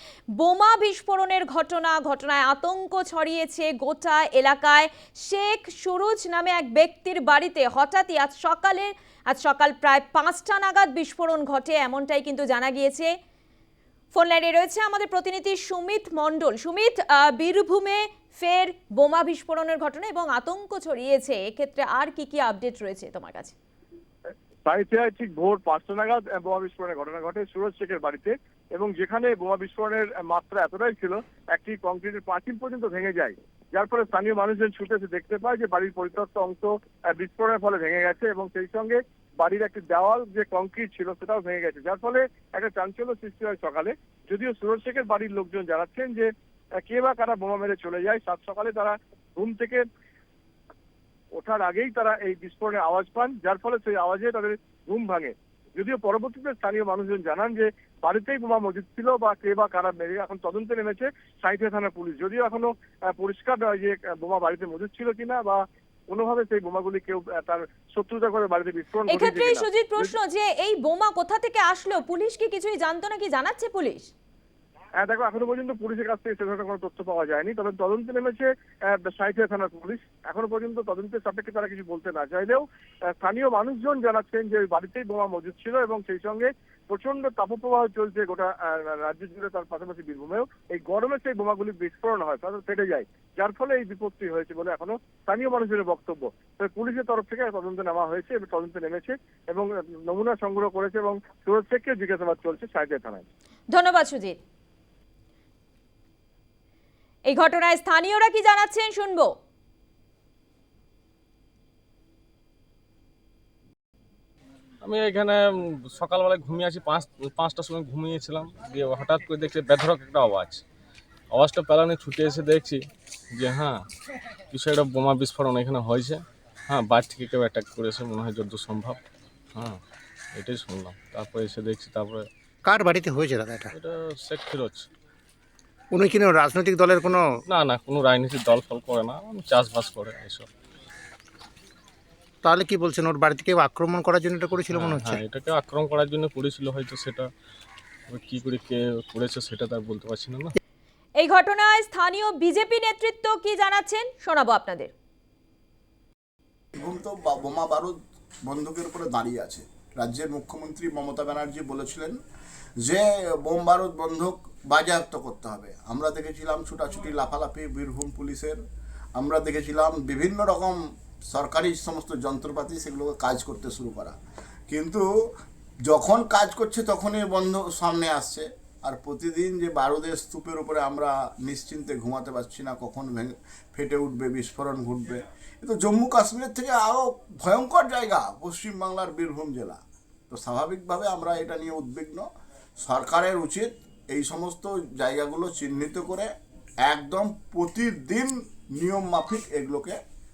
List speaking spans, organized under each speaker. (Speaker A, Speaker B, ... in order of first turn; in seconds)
Speaker A: 0.4-13.1, 14.1-23.5, 69.1-74.1, 103.7-104.4, 107.3-109.3, 151.2-154.9
Speaker B: 24.6-49.8, 51.4-70.1, 75.0-82.6, 83.2-103.2
Speaker C: 114.8-120.6, 121.3-122.8, 123.3-123.8, 124.5-129.0, 130.3-132.3, 133.7-134.9, 137.5-140.5, 144.7-147.3, 148.1-150.5
Speaker D: 132.7-133.7, 136.2-137.2, 142.7-144.7
Speaker E: 156.7-157.9, 158.5-162.2, 162.8-168.6, 169.2-174.2, 174.7-175.1, 175.9-192.2, 192.8-196.3, 196.8-200.0